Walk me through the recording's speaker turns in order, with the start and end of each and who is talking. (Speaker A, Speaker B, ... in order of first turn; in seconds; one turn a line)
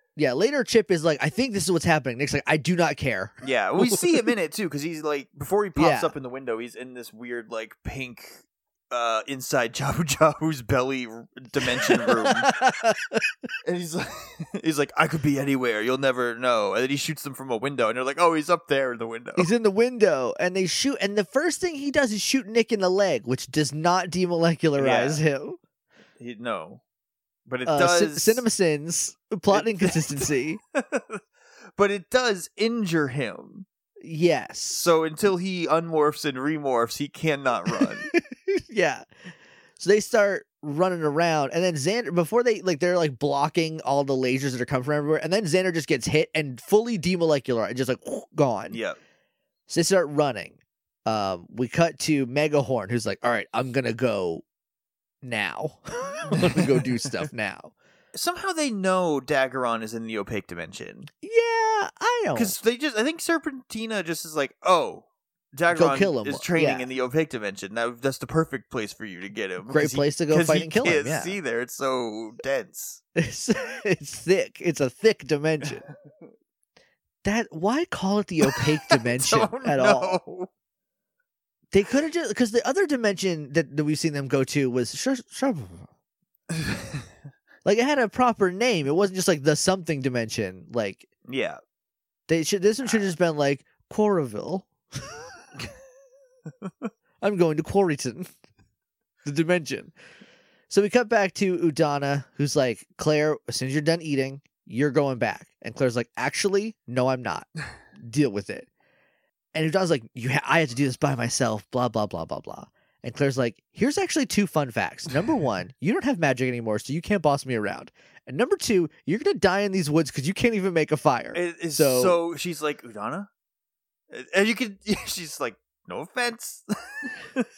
Speaker A: 0.1-4.1
Speaker B: 3.4-12.5
Speaker A: 5.8-6.1
Speaker A: 11.8-13.2
Speaker B: 13.6-19.5
Speaker A: 19.4-25.6
Speaker B: 24.8-25.2
Speaker B: 26.2-26.8
Speaker B: 27.5-28.4
Speaker A: 27.6-30.6
Speaker B: 29.5-31.2
Speaker B: 31.8-33.6
Speaker A: 34.0-34.9
Speaker B: 34.7-38.1
Speaker A: 37.7-39.0
Speaker A: 39.8-48.8
Speaker B: 48.7-49.0
Speaker A: 49.7-54.4
Speaker A: 55.2-57.7
Speaker B: 56.3-56.9
Speaker B: 58.1-61.1
Speaker A: 61.2-62.5
Speaker B: 62.3-73.0
Speaker A: 65.7-66.9
Speaker A: 69.7-71.4
Speaker A: 73.1-75.8
Speaker A: 77.2-80.2
Speaker B: 78.5-80.5
Speaker A: 81.7-85.9
Speaker B: 86.5-87.0
Speaker A: 87.6-91.1
Speaker B: 91.3-91.6
Speaker A: 92.3-95.1
Speaker B: 92.8-93.1
Speaker B: 96.6-96.9
Speaker A: 97.2-98.3
Speaker A: 99.2-99.9
Speaker A: 100.7-108.7
Speaker A: 109.5-122.2
Speaker B: 121.3-123.3
Speaker B: 124.1-127.5